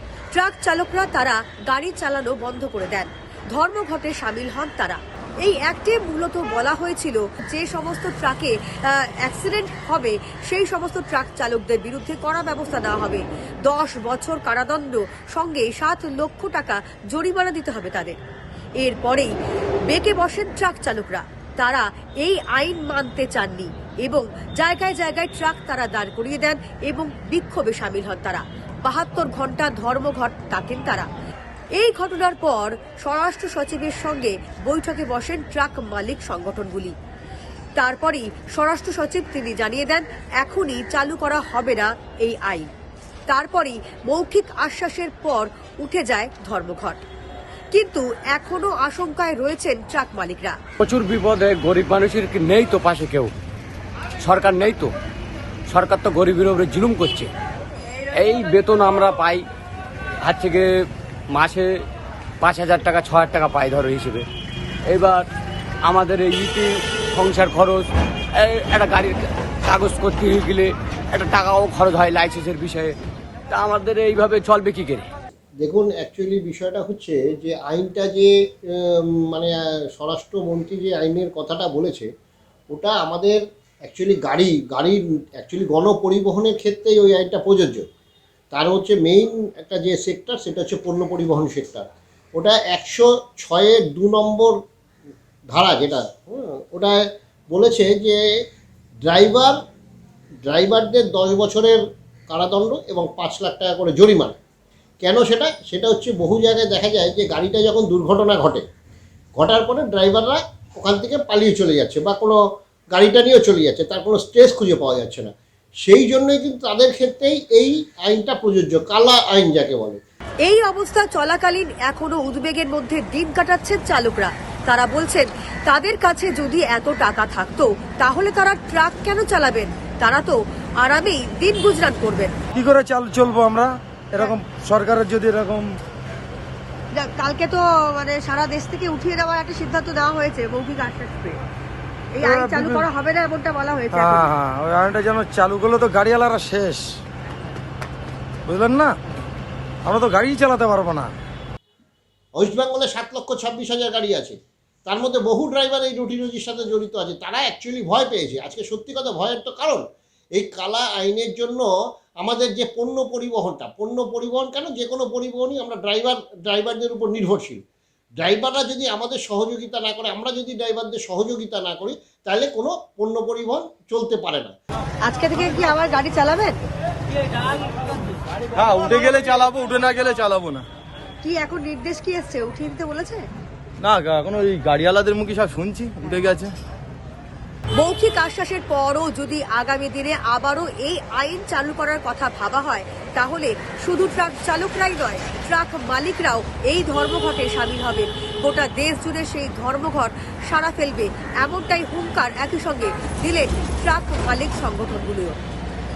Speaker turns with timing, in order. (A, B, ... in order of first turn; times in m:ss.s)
0:00.3-0:18.2 A
0:18.8-0:19.3 A
0:19.9-0:31.1 A
0:31.8-0:37.0 A
0:37.8-0:42.7 A
0:43.3-0:47.0 A
0:47.7-0:50.6 A
0:50.8-0:53.3 B
0:54.2-0:54.9 B
0:55.7-0:57.3 B
0:58.2-0:59.4 B
1:00.2-1:00.7 B
1:01.3-1:01.7 B
1:02.4-1:04.3 B
1:04.9-1:05.3 B
1:05.8-1:13.0 B
1:13.5-1:15.1 B
1:15.6-1:22.1 C
1:22.7-1:27.8 C
1:28.5-1:34.6 C
1:35.5-1:38.2 C
1:39.1-1:39.6 C
1:40.4-1:44.4 C
1:45.0-1:48.6 C
1:49.4-1:52.4 C
1:52.9-1:55.3 C
1:55.8-2:00.0 C
2:00.4-2:12.4 A
2:12.6-2:15.7 D
2:17.0-2:21.4 A
2:22.2-2:24.3 A
2:22.3-2:22.9 D
2:23.9-2:26.8 D
2:28.5-2:29.0 D
2:29.8-2:31.1 D
2:32.4-2:39.8 C
2:40.4-2:41.7 C
2:42.2-2:47.6 C
2:48.2-2:54.6 C
2:55.0-2:56.6 A
2:58.6-3:00.6 D
3:01.2-3:03.3 A
3:03.8-3:06.5 D
3:07.8-3:25.4 A